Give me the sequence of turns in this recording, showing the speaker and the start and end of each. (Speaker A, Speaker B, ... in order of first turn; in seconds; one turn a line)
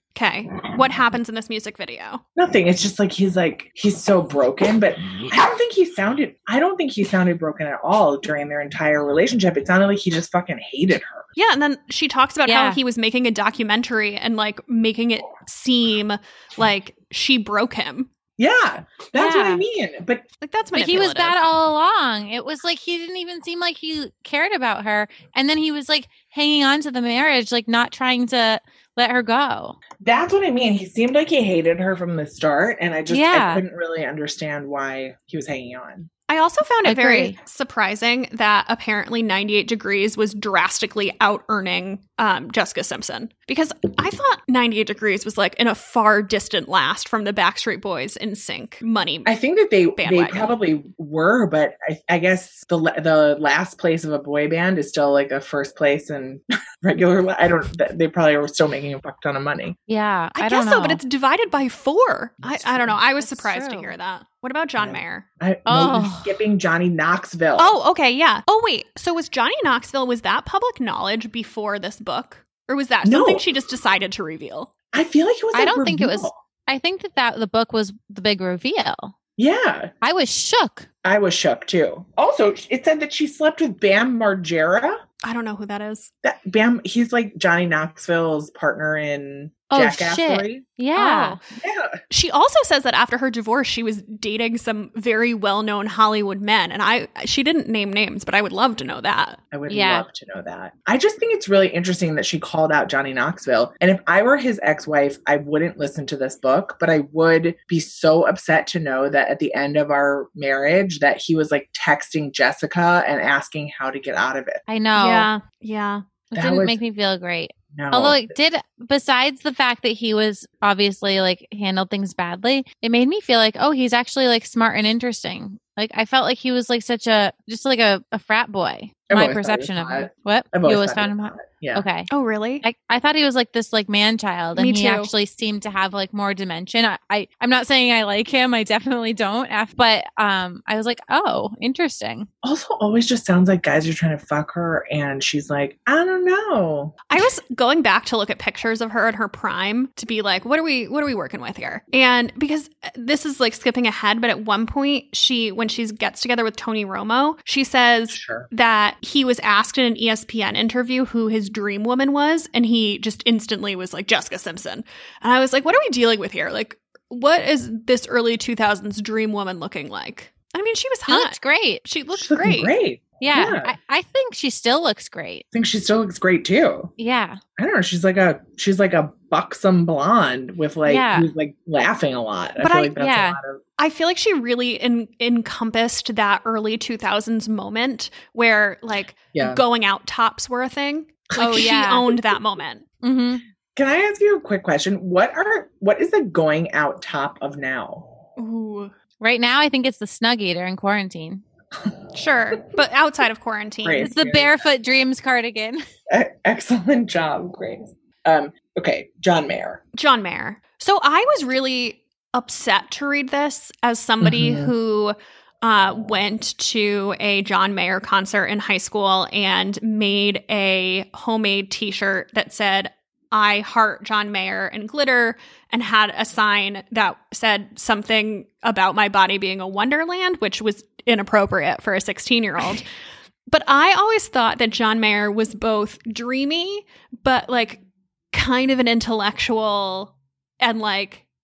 Speaker A: 0.1-2.2
Speaker B: 2.4-11.3
Speaker A: 11.4-18.1
Speaker C: 12.5-12.8
Speaker B: 18.4-20.3
Speaker C: 19.1-19.6
Speaker A: 20.4-21.4
Speaker C: 20.7-29.8
Speaker B: 30.0-36.1
Speaker C: 33.1-33.6
Speaker A: 36.3-49.3
Speaker C: 36.9-37.4
Speaker B: 49.3-59.8
Speaker A: 50.0-50.5
Speaker C: 59.9-61.0
Speaker A: 60.4-65.2
Speaker B: 62.5-63.0
Speaker C: 63.2-64.0
Speaker B: 64.8-67.8
Speaker C: 65.7-66.4
Speaker A: 67.6-74.7
Speaker B: 73.0-73.5
Speaker B: 74.9-76.4
Speaker C: 75.5-79.1
Speaker B: 79.4-79.9
Speaker C: 80.0-80.9
Speaker B: 81.0-85.0
Speaker A: 85.2-86.1
Speaker B: 86.2-90.7
Speaker C: 89.7-91.4
Speaker A: 90.9-91.4
Speaker B: 91.5-92.0
Speaker A: 92.1-99.4
Speaker B: 99.5-114.6
Speaker C: 99.7-100.1
Speaker C: 114.7-115.3
Speaker A: 115.0-116.0
Speaker C: 116.3-132.1
Speaker B: 116.3-116.8
Speaker B: 117.7-118.3
Speaker B: 129.1-131.9
Speaker A: 132.1-132.6
Speaker C: 132.6-142.3
Speaker A: 134.6-135.1
Speaker B: 142.4-147.1
Speaker A: 147.1-172.7
Speaker B: 158.1-158.5
Speaker C: 171.1-171.8
Speaker B: 172.1-173.7
Speaker C: 173.2-175.4
Speaker B: 175.5-176.9
Speaker C: 177.0-177.4
Speaker B: 177.6-183.6
Speaker C: 180.8-181.3
Speaker A: 182.6-182.9
Speaker C: 183.0-183.4
Speaker A: 183.8-192.8
Speaker B: 189.3-189.6
Speaker B: 191.3-191.7
Speaker C: 191.4-192.1
Speaker C: 193.0-193.4
Speaker B: 193.8-198.1
Speaker A: 198.4-198.9
Speaker C: 199.2-201.4
Speaker A: 202.1-204.1
Speaker B: 203.8-204.6
Speaker C: 204.0-205.8
Speaker B: 206.1-209.8
Speaker A: 209.9-232.8
Speaker B: 214.2-214.7
Speaker A: 233.5-241.2